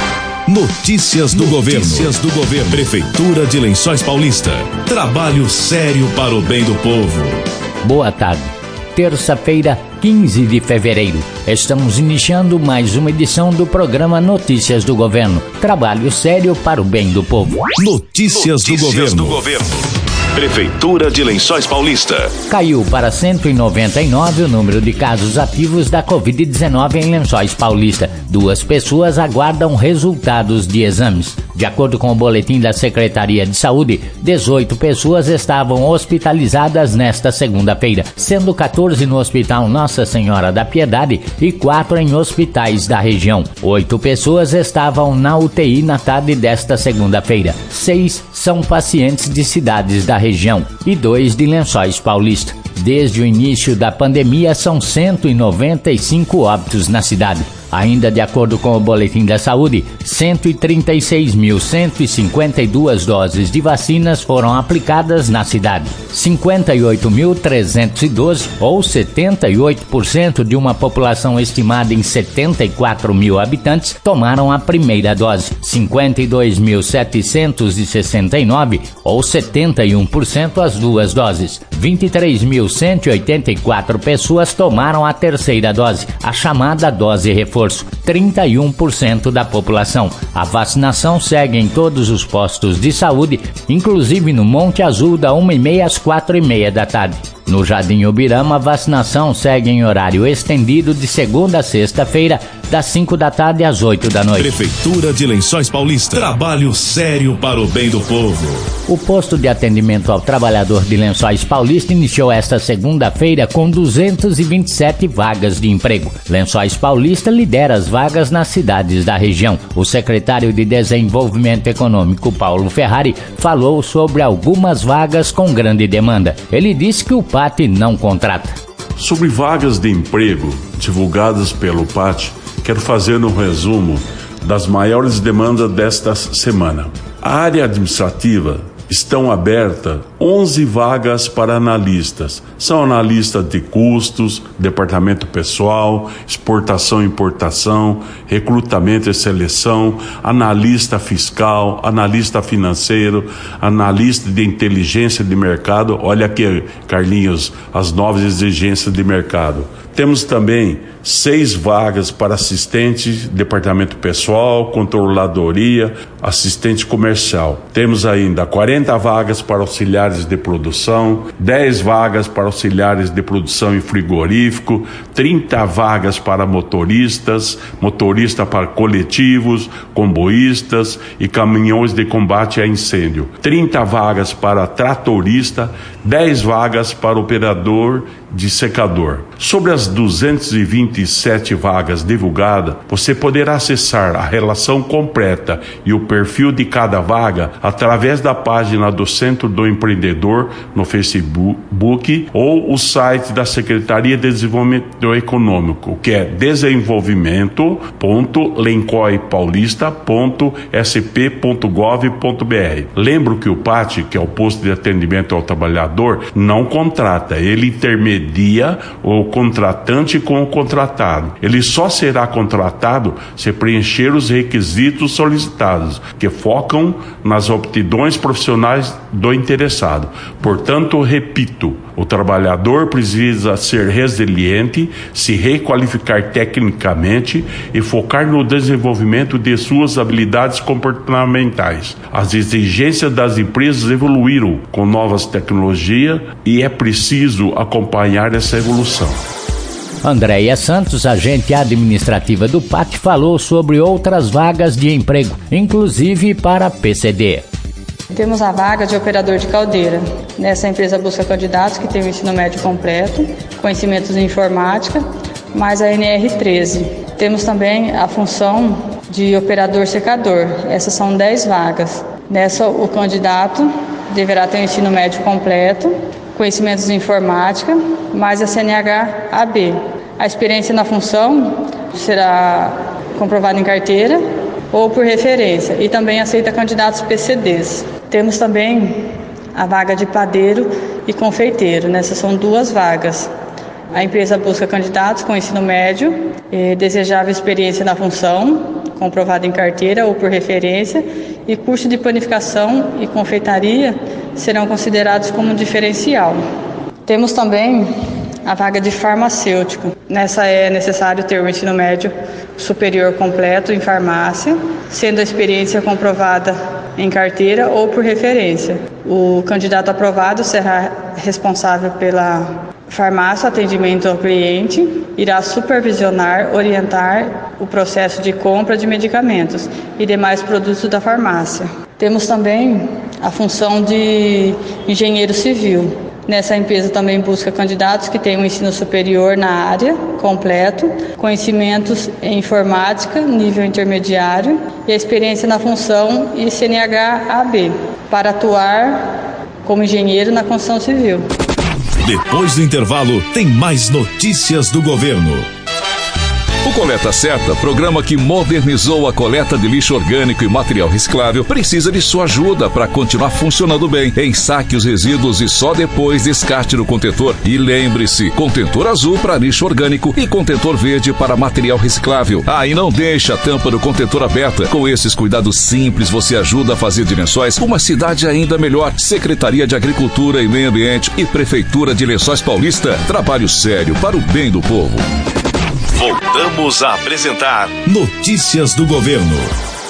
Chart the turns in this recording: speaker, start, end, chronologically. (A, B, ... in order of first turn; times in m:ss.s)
0:00.5-0:07.4 A
0:01.7-0:02.1 B
0:07.8-0:17.6 C
0:17.8-0:19.8 A
0:18.9-0:19.2 B
0:20.4-0:22.3 A
0:22.5-1:44.5 C
1:44.4-1:48.7 A
1:48.9-2:08.6 C
2:09.0-4:09.2 D
4:10.0-4:17.4 C
4:18.1-4:25.0 E
4:25.5-4:44.2 E
4:44.7-4:53.3 E
4:53.9-5:06.4 E
5:07.1-5:07.9 E
5:08.4-5:51.3 E
5:52.0-5:55.5 A
5:56.6-6:25.0 B
6:25.9-6:29.5 A